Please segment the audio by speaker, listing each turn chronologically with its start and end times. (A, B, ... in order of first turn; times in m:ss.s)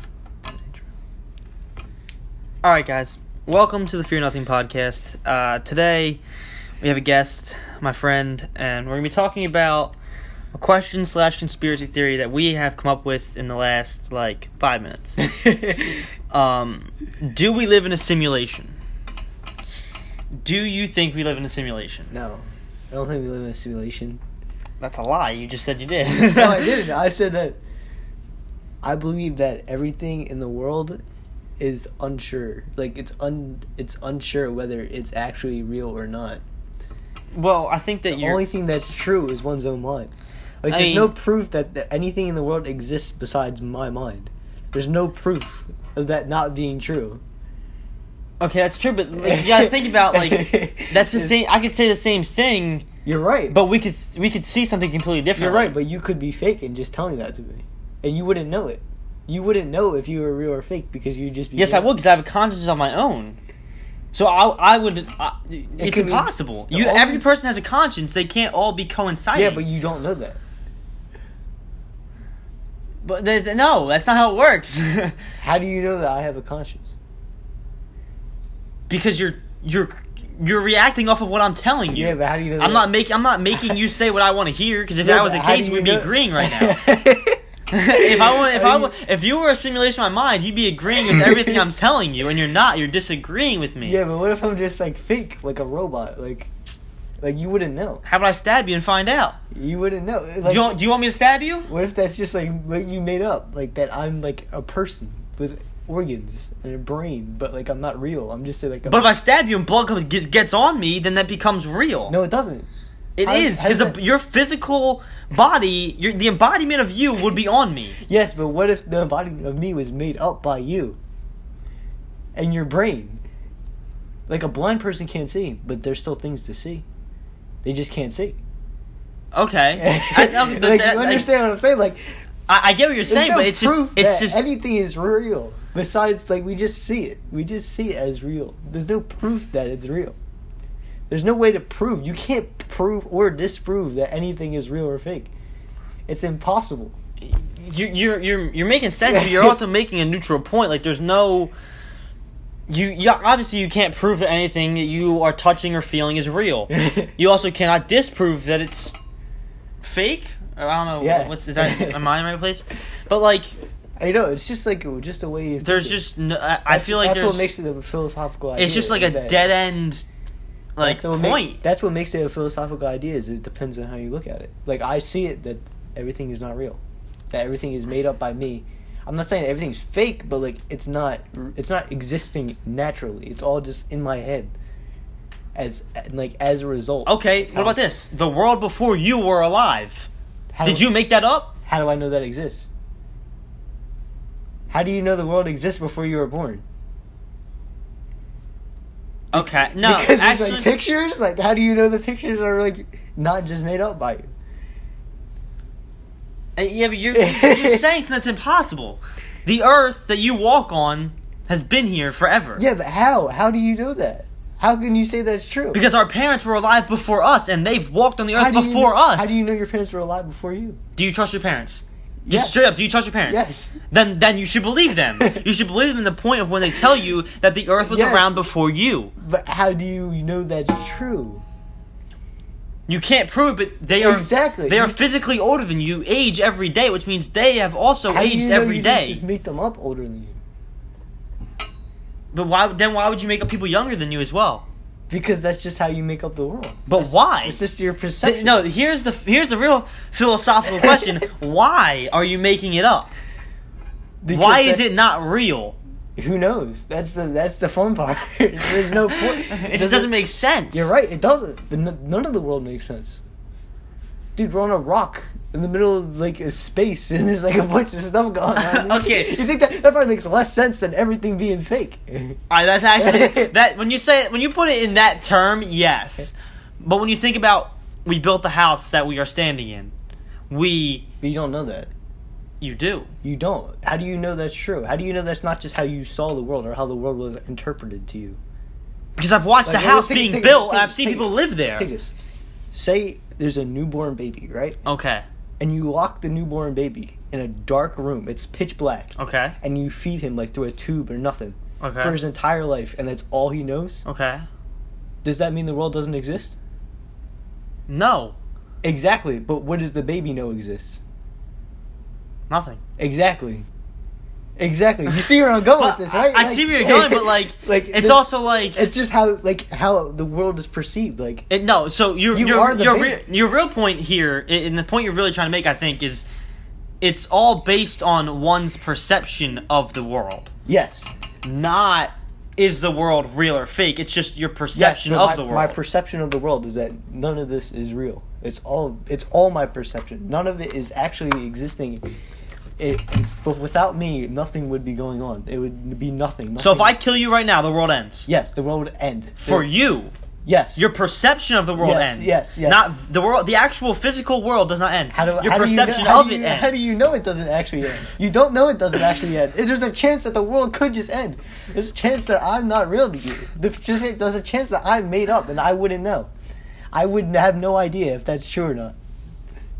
0:00.4-0:00.9 A
0:02.6-0:06.2 B
0:06.8-0:09.9 B
0:10.5-0:15.2 B
0:15.2-0:16.0 A
0:16.3-0:18.7 B
0:20.4-0:22.1 B
0:22.1-0:24.2 A
0:24.8-0:26.8 B
0:26.0-0:27.6 A
0:28.8-0:31.0 A
0:31.6-0:36.4 A
0:37.3-0:38.4 B
0:38.1-0:40.1 A
0:40.6-0:47.2 A
0:40.7-0:41.1 B
0:48.4-0:52.8 B
0:49.2-0:51.3 A
0:53.0-0:53.6 A
0:53.5-0:55.7 B
0:55.4-1:01.9 A
1:01.6-1:03.4 B
1:04.1-1:09.6 B
1:05.8-1:07.2 A
1:09.3-1:10.4 A
1:13.0-1:15.2 B
1:15.4-1:16.9 A
1:18.9-1:26.8 B
1:21.9-1:22.9 A
1:25.0-1:28.9 A
1:27.7-1:34.0 B
1:30.9-1:31.6 A
1:33.8-1:36.5 A
1:37.2-1:38.0 A
1:38.0-1:39.4 B
1:39.5-1:40.8 A
1:40.4-1:41.7 B
1:41.7-1:49.1 A
1:48.8-1:52.1 B
1:52.1-1:52.7 A
1:53.2-1:58.0 B
1:53.2-1:54.0 A
1:58.1-2:01.0 A
2:02.3-2:03.2 A
2:04.3-2:06.8 A
2:07.6-2:08.4 A
2:09.3-2:11.3 B
2:09.8-2:12.2 A
2:12.5-2:14.5 B
2:13.1-2:20.2 A
2:21.1-2:25.3 A
2:26.1-2:27.0 A
2:27.2-2:31.5 B
2:29.1-2:29.5 A
2:32.7-2:39.0 B
2:36.7-2:37.1 A
2:39.8-2:43.5 B
2:41.0-2:42.0 A
2:44.0-2:46.0 A
2:45.6-2:47.5 B
2:46.7-2:49.5 A
2:48.6-2:50.1 B
2:50.8-2:51.6 B
2:50.8-3:04.5 A
3:05.5-3:07.8 A
3:07.0-3:10.1 B
3:10.5-3:10.9 A
3:10.6-3:11.5 B
3:11.6-3:12.7 A
3:14.7-3:16.6 A
3:19.3-3:20.7 B
3:19.3-3:24.3 A
3:26.6-3:32.6 B
3:27.1-3:27.8 A
3:32.6-3:35.8 A
3:35.7-3:39.4 B
3:38.3-3:40.8 A
3:41.0-3:49.1 B
3:42.2-3:42.7 A
3:43.3-3:43.8 A
3:47.8-3:48.4 A
3:49.2-3:51.4 A
3:52.9-3:59.2 B
3:54.0-3:55.0 A
3:58.1-4:00.4 A
4:02.3-4:04.6 B
4:05.1-4:08.6 A
4:06.9-4:07.6 B
4:08.2-4:13.1 B
4:14.2-4:14.8 A
4:14.3-4:15.8 B
4:16.2-4:20.1 A
4:19.1-4:20.9 B
4:20.7-4:23.2 A
4:24.4-4:32.4 A
4:28.5-4:29.4 B
4:32.5-4:39.9 B
4:32.9-4:33.5 A
4:40.5-4:41.0 B
4:41.2-4:41.9 A
4:42.6-4:43.1 B
4:43.2-4:48.4 A
4:49.2-4:51.9 B
4:49.6-4:52.1 A
4:52.7-4:54.8 A
4:54.8-4:55.2 B
4:55.6-5:04.0 A
4:59.2-4:59.5 B
5:01.8-5:02.2 B
5:04.0-5:04.4 B
5:05.2-5:06.6 A
5:07.9-5:08.4 B
5:08.8-5:11.0 A
5:12.5-5:12.8 B
5:13.0-5:13.7 A
5:14.6-5:21.5 A
5:15.8-5:18.8 B
5:21.5-5:26.2 B
5:22.3-5:23.2 A
5:27.0-5:30.5 B
5:30.6-5:31.1 A
5:31.4-5:35.8 B
5:34.7-5:42.1 A
5:42.8-5:46.9 A
5:46.6-5:48.3 B
5:48.3-5:49.7 A
5:49.4-5:50.1 B
5:50.4-5:50.8 A
5:50.8-5:57.0 B
5:51.8-5:52.9 A
5:55.1-6:06.3 A
6:06.9-6:09.0 A